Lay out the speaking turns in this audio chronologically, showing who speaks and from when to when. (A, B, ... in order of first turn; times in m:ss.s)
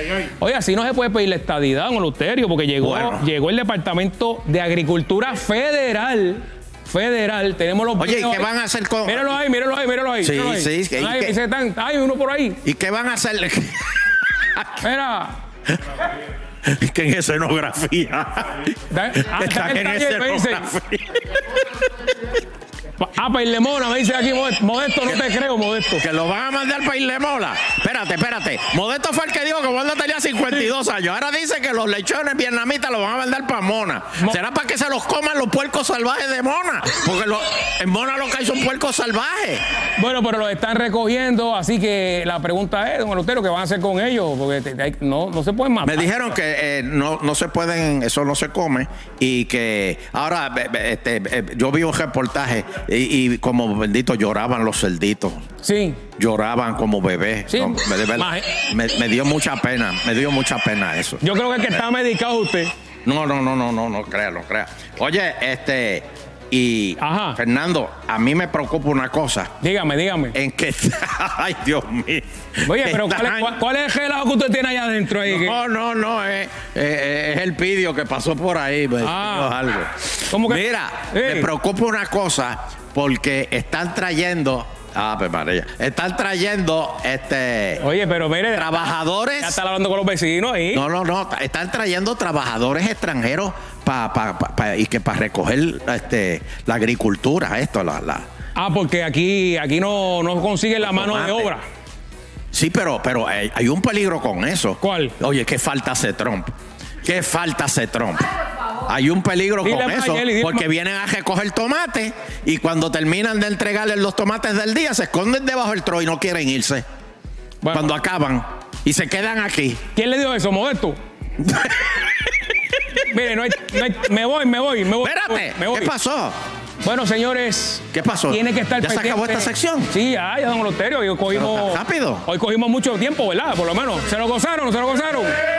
0:00.2-0:08.5 A
0:02.8-0:03.3 B
0:08.0-0:09.3 B
0:09.0-0:12.6 A
0:10.2-0:11.4 B
0:12.6-0:13.9 B
0:14.4-0:14.8 B
0:14.8-0:15.3 A
0:16.6-0:18.7 B
0:18.9-0:20.7 A
0:19.2-0:21.3 B
0:23.0-0:26.0 A
0:26.0-0:39.6 B
0:40.0-0:46.1 A
0:45.8-0:55.4 B
0:55.6-0:56.0 A
0:56.2-1:01.2 B
0:57.5-0:58.6 A
1:01.2-1:02.7 A
1:03.0-1:09.5 B
1:07.0-1:07.4 A
1:09.6-1:10.4 A
1:10.3-1:13.6 B
1:12.6-1:15.6 A
1:15.2-1:27.8 B
1:19.0-1:19.5 A
1:20.3-1:21.5 A
1:27.8-1:30.8 A
1:28.5-1:29.6 B
1:30.7-1:38.2 B
1:38.5-1:41.6 A
1:40.8-1:41.5 B
1:42.5-1:46.5 B
1:44.8-1:45.1 A
1:47.0-1:48.3 B
1:48.8-1:56.8 B
1:49.6-1:50.7 A
1:57.6-1:58.0 A
1:57.7-1:59.8 B
1:59.9-2:01.0 A
2:01.4-2:02.0 B
2:02.9-2:05.9 A
2:04.9-2:06.3 B
2:06.8-2:15.4 A
2:07.9-2:09.9 B
2:11.3-2:12.2 B